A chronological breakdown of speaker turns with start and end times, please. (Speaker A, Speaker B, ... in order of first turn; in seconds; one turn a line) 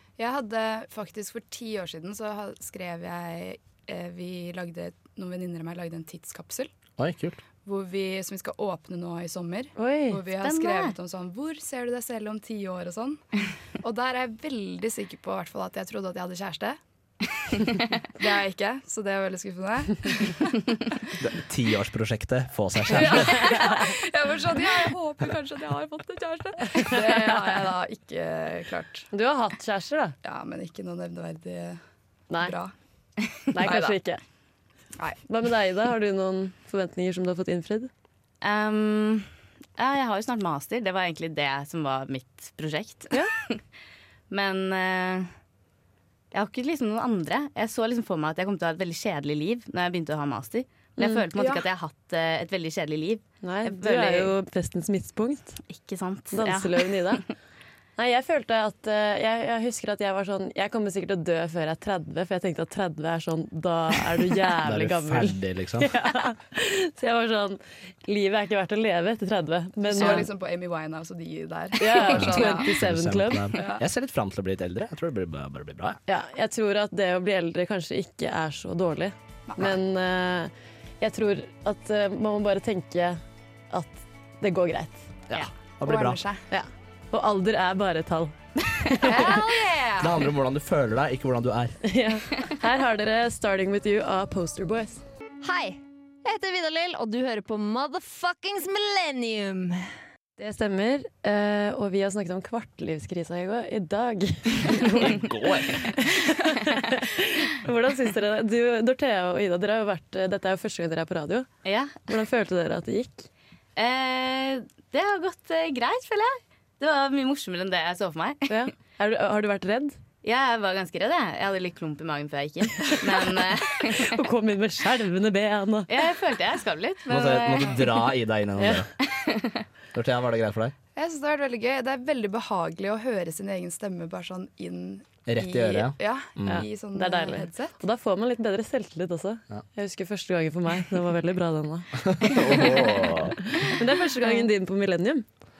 Speaker A: 0.2-6.7
Speaker B: 7.0-7.4
Speaker A: 7.6-13.2
Speaker C: 9.8-10.2
Speaker D: 10.4-10.9
Speaker A: 13.8-16.8
Speaker A: 18.1-20.7
Speaker B: 21.2-23.7
Speaker A: 22.9-29.1
Speaker C: 26.8-27.3
Speaker C: 29.1-30.1
Speaker A: 30.2-31.8
Speaker C: 32.3-32.5
Speaker A: 32.4-32.7
Speaker C: 33.5-34.2
Speaker A: 33.6-34.0
Speaker C: 35.3-37.9
Speaker D: 38.4-43.6
Speaker D: 44.3-45.3
Speaker D: 46.3-54.3
Speaker C: 51.0-51.2
Speaker A: 51.3-51.6
Speaker C: 53.4-55.6
Speaker D: 55.7-57.3
Speaker C: 56.3-57.2
Speaker C: 58.0-70.3
Speaker B: 64.6-65.9
Speaker A: 69.8-72.7
Speaker D: 70.0-70.3
Speaker C: 71.8-73.5
Speaker B: 72.2-76.0
Speaker A: 73.5-73.8
Speaker C: 76.1-85.1
Speaker A: 79.5-79.7
Speaker B: 85.3-86.2
Speaker A: 85.8-86.4
Speaker C: 86.5-88.3
Speaker C: 88.9-89.3
Speaker A: 89.0-90.2
Speaker B: 90.0-91.8
Speaker C: 91.8-95.0
Speaker E: 95.4-99.9
Speaker C: 100.4-111.5
Speaker B: 105.0-105.8
Speaker D: 111.6-112.0
Speaker C: 112.1-113.3
Speaker D: 113.8-118.7
Speaker C: 118.5-120.0
Speaker D: 120.2-124.1
Speaker C: 122.9-125.9
Speaker D: 125.9-127.9
Speaker B: 127.1-128.9
Speaker C: 128.6-128.8
Speaker D: 129.0-129.6
Speaker B: 129.9-130.7
Speaker A: 130.9-137.8
Speaker B: 135.2-136.6
Speaker C: 136.5-145.2
Speaker B: 142.0-143.4